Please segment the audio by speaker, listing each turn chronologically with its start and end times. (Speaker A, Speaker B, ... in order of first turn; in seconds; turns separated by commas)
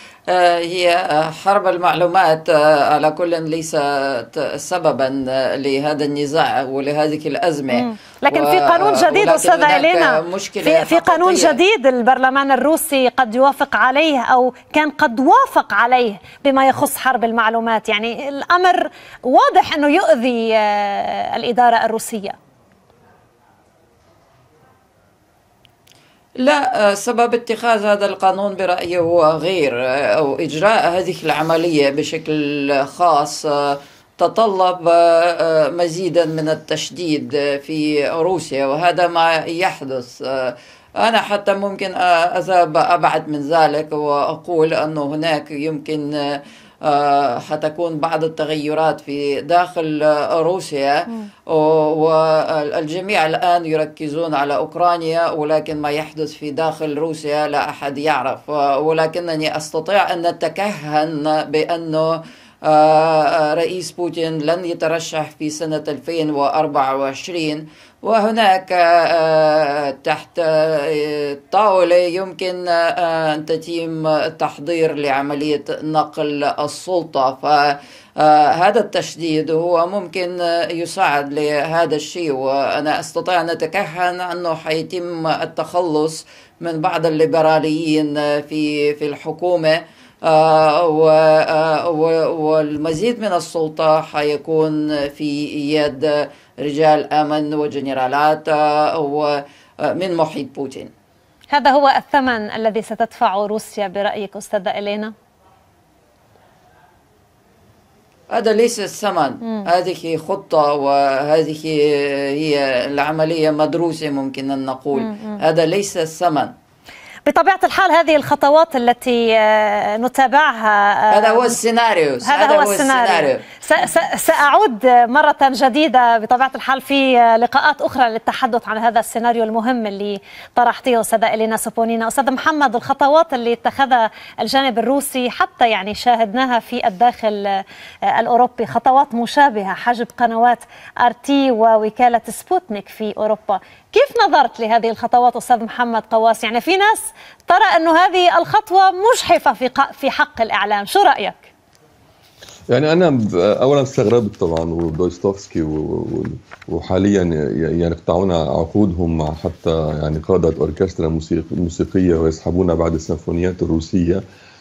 Speaker A: 0.3-11.6, Speaker B: 7.7-22.4, Speaker A: 26.4-100.9, Speaker B: 101.5-105.1, Speaker A: 108.3-116.5, Speaker B: 115.0-115.4, Speaker B: 117.3-121.6, Speaker A: 121.1-123.5, Speaker B: 122.2-151.5, Speaker C: 152.7-164.2